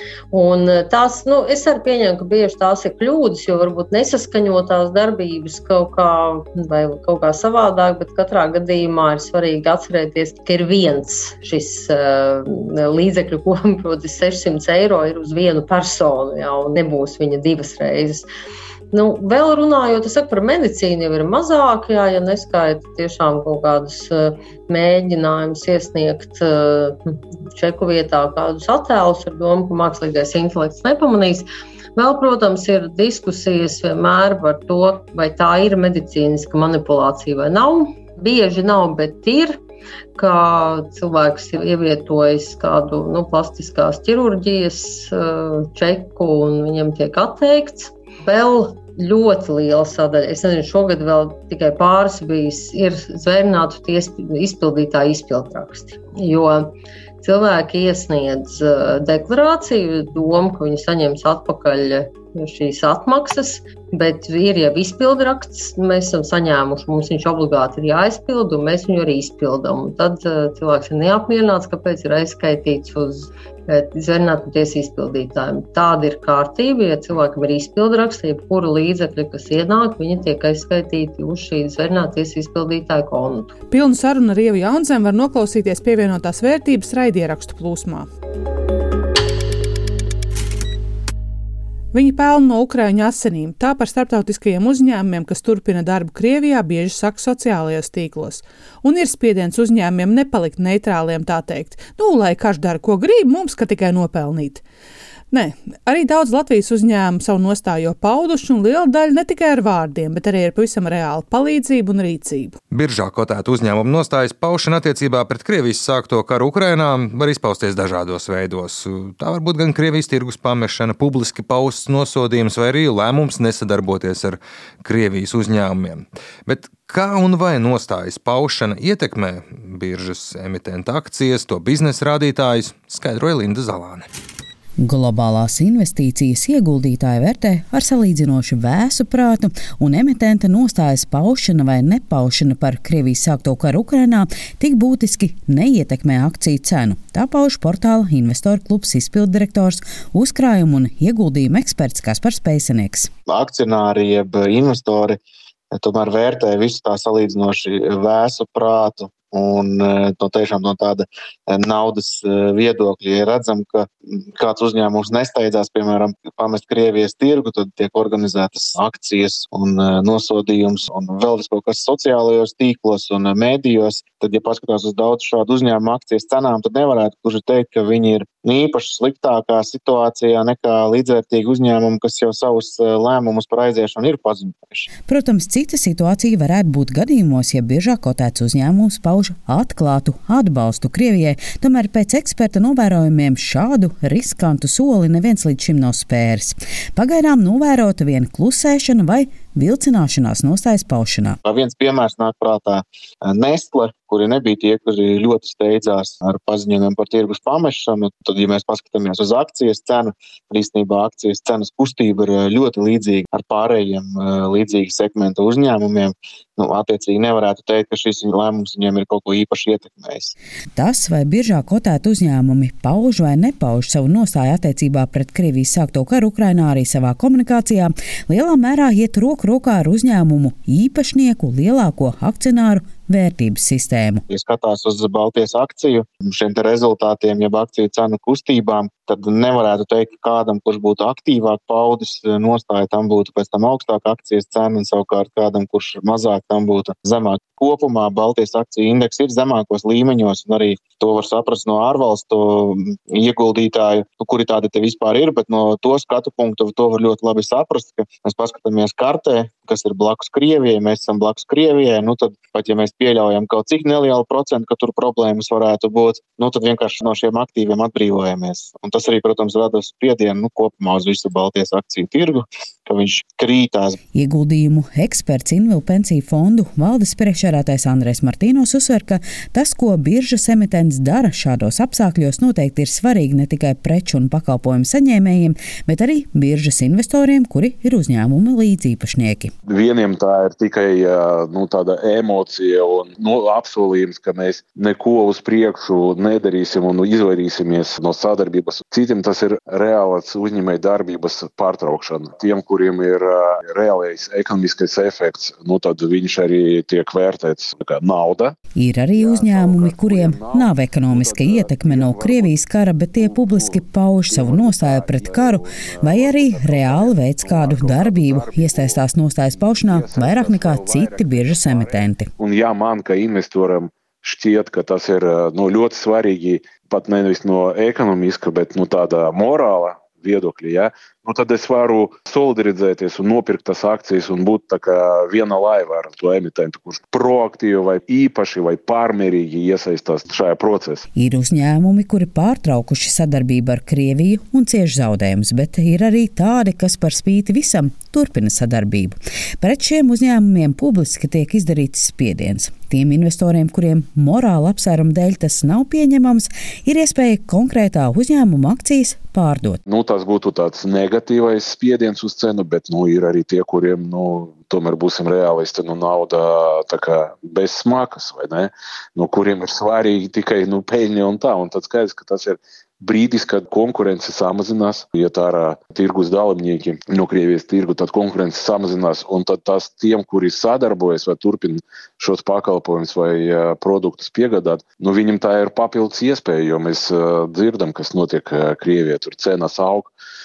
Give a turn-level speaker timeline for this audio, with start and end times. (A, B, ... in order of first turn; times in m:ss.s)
0:00.3-0:18.3 A
0:18.9-0:27.0 A
0:27.5-0:39.6 A
0:40.2-1:23.5 A
1:23.7-1:28.1 B
1:31.9-1:44.6 B
1:45.3-1:52.5 B
1:52.7-2:14.1 C
2:14.8-2:33.1 D
2:33.3-2:35.2 E
2:35.7-3:04.9 E
3:05.1-3:21.4 D
3:21.4-3:40.3 E
3:40.8-3:54.2 D
3:54.3-4:34.0 E
4:34.1-4:49.5 D
4:49.7-5:08.6 F
5:08.8-5:22.3 D
5:09.1-5:12.6 F
5:13.1-5:41.0 F
5:41.1-5:59.8 D
5:59.9-6:30.1 F